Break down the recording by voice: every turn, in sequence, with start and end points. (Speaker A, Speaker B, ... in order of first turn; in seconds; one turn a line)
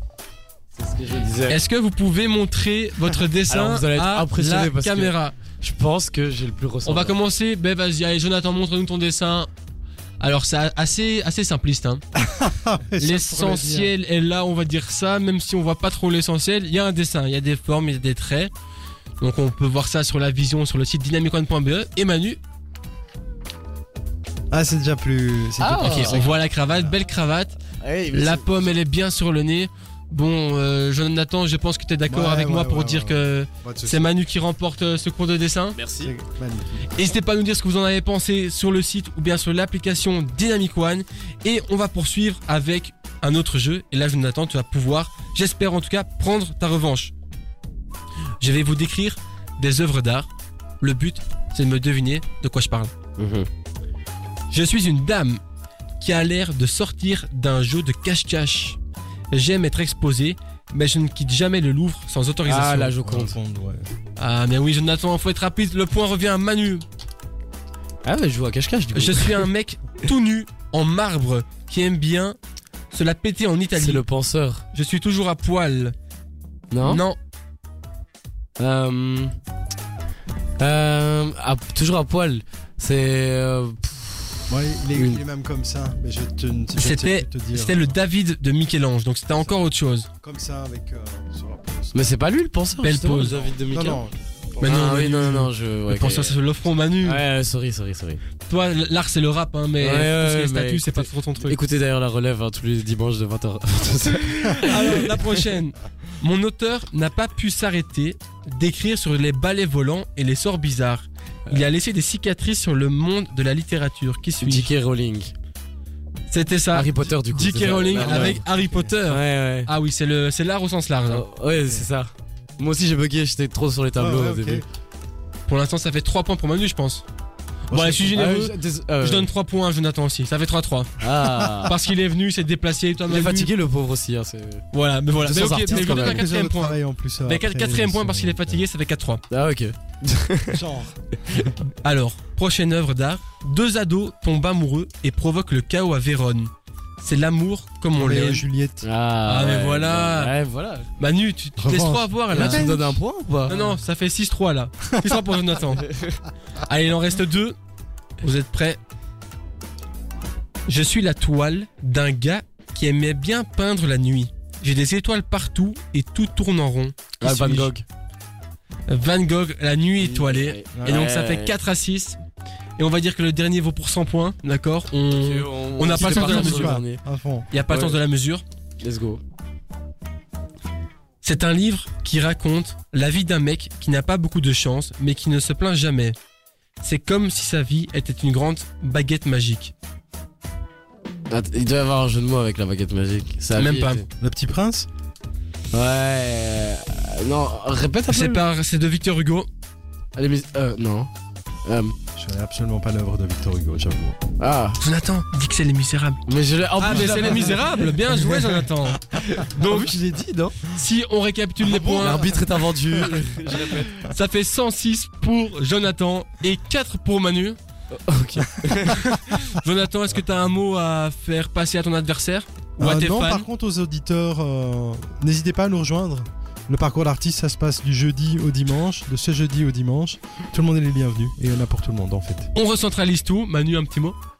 Speaker A: 0.8-1.6
Speaker B: 1.5-5.4
Speaker A: 3.5-7.2
Speaker B: 6.8-9.5
Speaker B: 10.2-12.0
Speaker C: 12.1-13.9
Speaker B: 13.0-18.5
Speaker B: 19.2-22.4
Speaker C: 24.5-26.9
Speaker A: 25.6-26.3
Speaker B: 25.8-27.6
Speaker A: 27.8-28.7
Speaker B: 28.1-35.8
Speaker C: 32.1-34.0
Speaker A: 35.7-36.1
Speaker C: 36.0-36.8
Speaker B: 36.9-47.1
Speaker B: 48.4-50.3
Speaker B: 50.8-52.9
Speaker A: 53.2-53.5
Speaker B: 54.5-55.4
Speaker B: 56.0-58.8
Speaker B: 59.3-62.9
Speaker A: 62.4-63.3
Speaker C: 63.0-63.9
Speaker B: 64.2-66.8
Speaker A: 68.0-69.5
Speaker B: 68.9-72.3
Speaker B: 72.9-74.0
Speaker A: 73.7-74.6
Speaker B: 74.7-75.9
Speaker A: 76.7-77.0
Speaker B: 76.8-77.2
Speaker A: 78.6-79.3
Speaker A: 80.6-85.2
Speaker C: 84.5-88.0
Speaker B: 86.7-90.1
Speaker C: 90.2-92.2
Speaker A: 91.9-94.0
Speaker B: 92.8-93.4
Speaker C: 93.2-94.9
Speaker A: 94.6-96.4
Speaker B: 94.6-97.2
Speaker A: 97.0-98.2
Speaker B: 98.5-101.6
Speaker A: 99.8-105.4
Speaker B: 104.6-114.7
Speaker A: 114.4-115.3
Speaker B: 116.3-121.2
Speaker A: 116.7-118.4
Speaker C: 118.0-118.9
Speaker A: 119.1-119.7
Speaker A: 121.1-124.6
Speaker C: 124.0-124.6
Speaker B: 125.5-127.0
Speaker C: 127.7-128.0
Speaker B: 127.7-131.0
Speaker A: 128.0-129.3
Speaker A: 131.0-131.7
Speaker B: 131.6-133.5
Speaker A: 133.1-134.6
Speaker B: 134.7-139.2
Speaker C: 135.2-138.6
Speaker A: 135.3-136.3
Speaker A: 139.3-140.6
Speaker C: 140.5-141.0
Speaker B: 141.8-148.5
Speaker C: 147.9-148.8
Speaker A: 148.8-150.9
Speaker B: 149.2-150.3
Speaker B: 151.0-152.7
Speaker C: 151.6-153.0
Speaker A: 152.3-153.7
Speaker B: 153.5-155.9
Speaker B: 156.6-157.6
Speaker B: 158.2-158.8
Speaker B: 160.7-167.7
Speaker A: 167.2-167.8
Speaker B: 168.9-172.2
Speaker A: 170.0-171.5
Speaker B: 172.8-176.8
Speaker A: 175.2-177.0
Speaker C: 175.9-177.5
Speaker B: 177.5-178.4
Speaker A: 177.7-178.0
Speaker A: 178.8-179.2
Speaker B: 181.2-186.2
Speaker B: 186.8-189.7
Speaker A: 191.3-194.0
Speaker B: 193.6-194.0
Speaker C: 194.2-194.9
Speaker A: 195.7-198.4
Speaker B: 198.1-199.5
Speaker A: 200.2-201.1
Speaker A: 201.6-201.9
Speaker C: 202.2-204.2
Speaker A: 204.4-204.8
Speaker B: 204.8-206.2
Speaker A: 206.3-208.2
Speaker B: 206.7-209.9
Speaker C: 206.9-207.7
Speaker A: 209.2-210.5
Speaker C: 209.6-210.7
Speaker B: 210.7-212.4
Speaker A: 211.6-213.9
Speaker C: 212.0-213.9
Speaker B: 213.9-217.6
Speaker A: 217.9-219.3
Speaker B: 219.3-223.5
Speaker C: 222.8-232.5
Speaker B: 232.5-234.2